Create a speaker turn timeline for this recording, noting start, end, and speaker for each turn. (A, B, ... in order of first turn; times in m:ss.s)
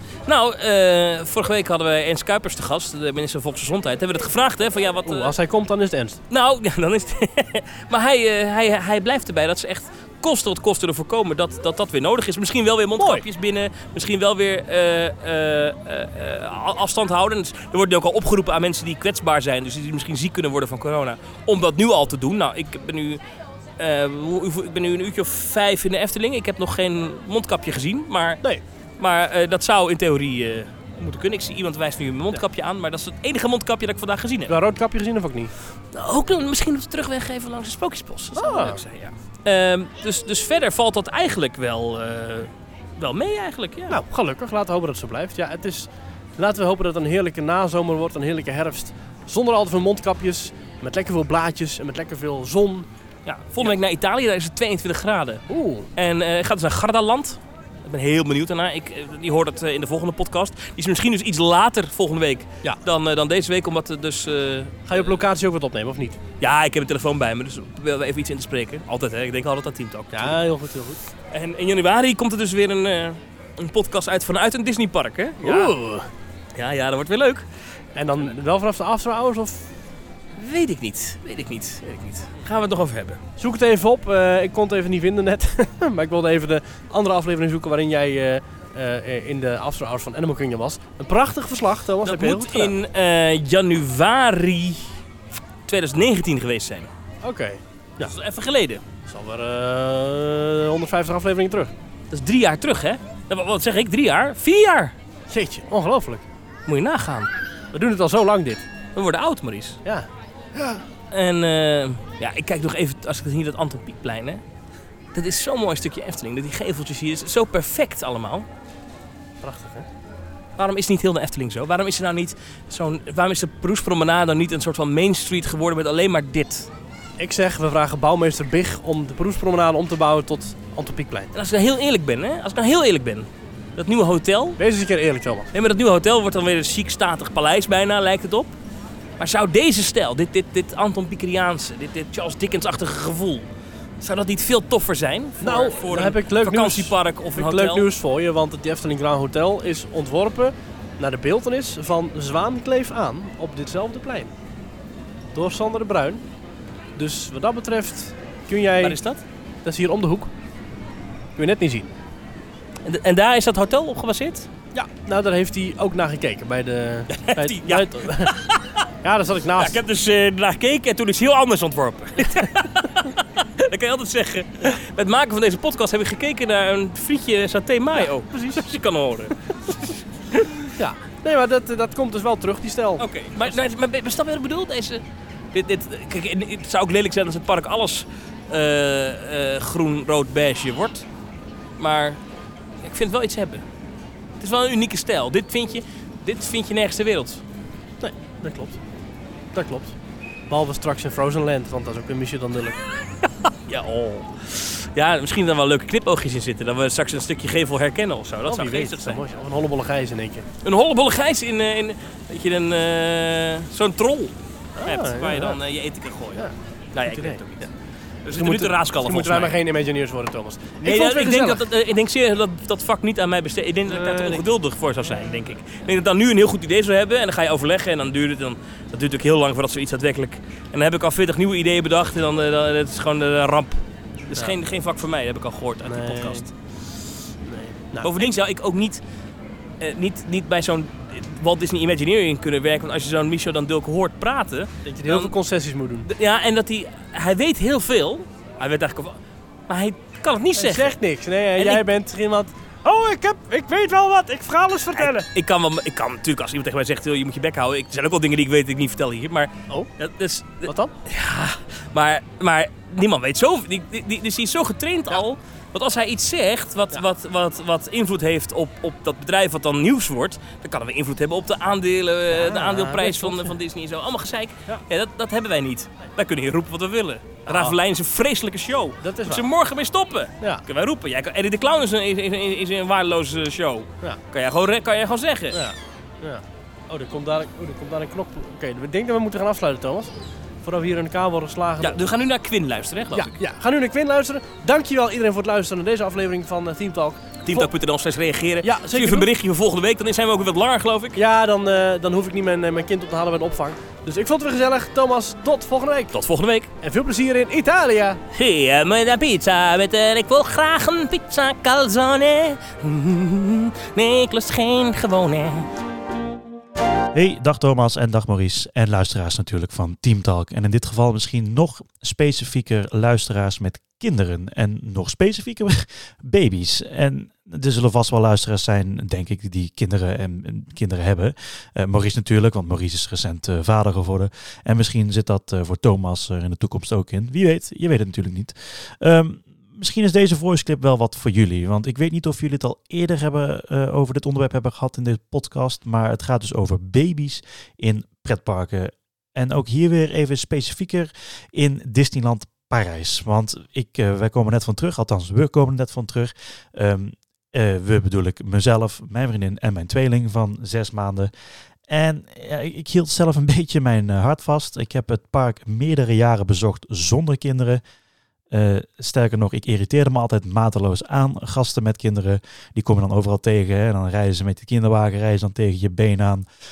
0:00.3-0:05.3 A
0:05.1-0:06.2 B
0:06.3-0:23.2 A
0:13.0-0:13.3 B
0:23.8-0:28.4 A
0:29.0-0:34.6 A
0:34.5-0:35.5 B
0:35.9-0:44.0 A
0:38.4-0:38.8 B
0:43.9-0:52.9 B
0:53.3-0:55.4 A
0:55.5-0:55.9 B
0:56.0-1:04.9 A
1:04.9-1:06.2 B
1:06.4-1:10.4 A
1:10.1-1:11.0 B
1:11.3-1:15.8 A
1:15.4-1:16.1 B
1:16.6-1:17.5 A
1:18.0-1:19.7 B
1:20.4-1:23.2 A
1:23.4-1:32.8 B
1:32.0-1:34.9 A
1:35.7-1:36.9 A
1:37.2-1:38.1 B
1:38.0-1:38.8 A
1:39.0-1:41.7 B
1:42.1-1:45.0 A
1:45.3-1:46.2 B
1:46.7-1:47.3 A
1:47.7-1:48.6 B
1:49.0-1:49.8 A
1:49.8-1:50.8 B
1:51.1-1:54.4 A
1:55.1-1:58.5 A
1:59.4-1:59.9 B
2:00.6-2:06.7 A
2:07.2-2:11.3 B
2:11.3-2:14.6 A
2:14.6-2:15.5 B
2:15.5-2:18.6 A
2:19.2-2:23.5 A
2:24.0-2:27.9 A
2:25.4-2:34.3 B
2:35.3-2:36.2 B
2:37.0-2:39.0 B
2:38.8-2:39.2 A
2:39.6-2:40.3 B
2:41.4-2:41.9 B
2:42.8-2:44.5 A
2:44.7-2:48.4 B
2:47.1-2:48.8 A
2:49.0-2:49.8 B
2:49.6-3:00.7 A
2:58.0-2:58.7 B
3:00.7-3:03.1 B
3:03.0-3:11.1 A
3:11.8-3:12.2 A
3:12.8-3:13.6 A
3:14.4-3:17.4 A
3:18.0-3:18.8 B
3:19.5-3:20.0 B
3:20.5-3:22.8 B
3:23.4-3:29.2 A
3:28.5-3:30.5 B
3:30.6-3:37.7 A
3:34.8-3:35.6 B
3:36.4-3:37.4 B
3:38.2-3:39.6 A
3:38.3-3:41.7 B
3:40.8-3:56.5 A
3:43.9-3:44.5 B
3:55.8-3:56.5 B
3:57.4-3:58.2 B
3:58.0-3:59.0 A
3:59.8-4:05.3 A
4:04.8-4:06.1 B
4:06.0-4:11.0 A
4:10.6-4:15.3 B
4:11.6-4:11.9 A
4:15.0-4:45.7 A
4:20.7-4:20.9 B
4:32.3-4:33.5 B
4:37.5-4:37.8 B
4:39.0-4:39.5 B
4:45.5-4:52.0 B
4:51.8-4:53.4 A
4:53.1-4:57.7 B
4:57.4-5:01.2 A
4:58.6-4:59.3 B
5:01.2-5:06.2 B
5:06.1-5:06.7 A
5:06.8-5:08.2 B
5:08.3-5:15.7 A
5:17.1-6:01.3 C
6:01.9-6:07.8 C
6:08.5-6:16.4 C